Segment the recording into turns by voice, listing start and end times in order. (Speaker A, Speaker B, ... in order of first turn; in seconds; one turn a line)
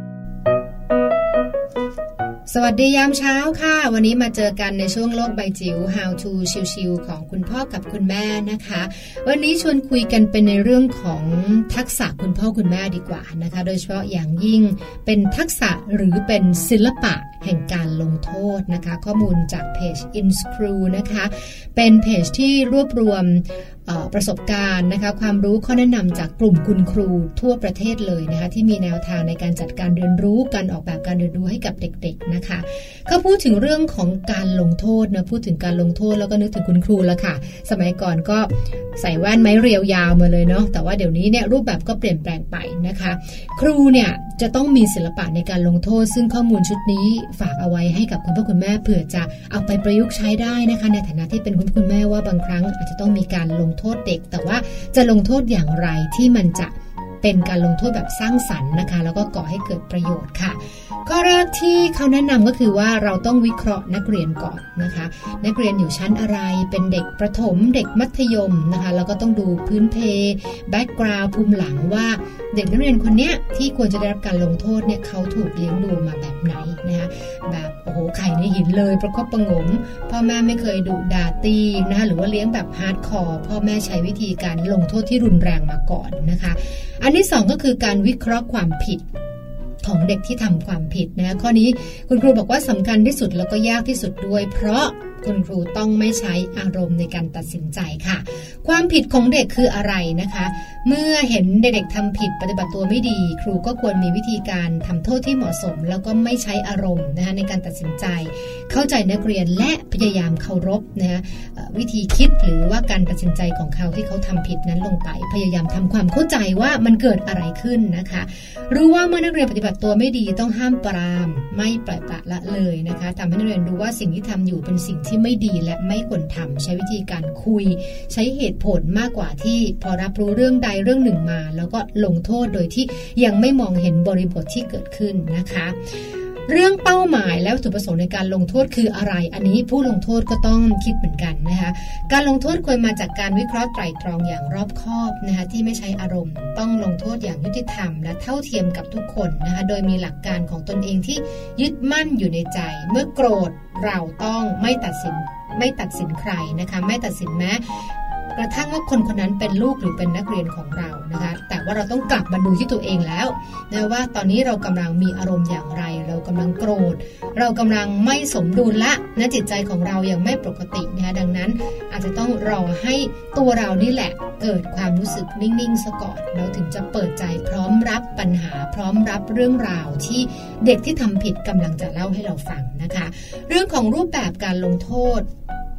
Speaker A: 2.5-89.1
Speaker A: 89.8-135.8
Speaker A: 136.5-185.3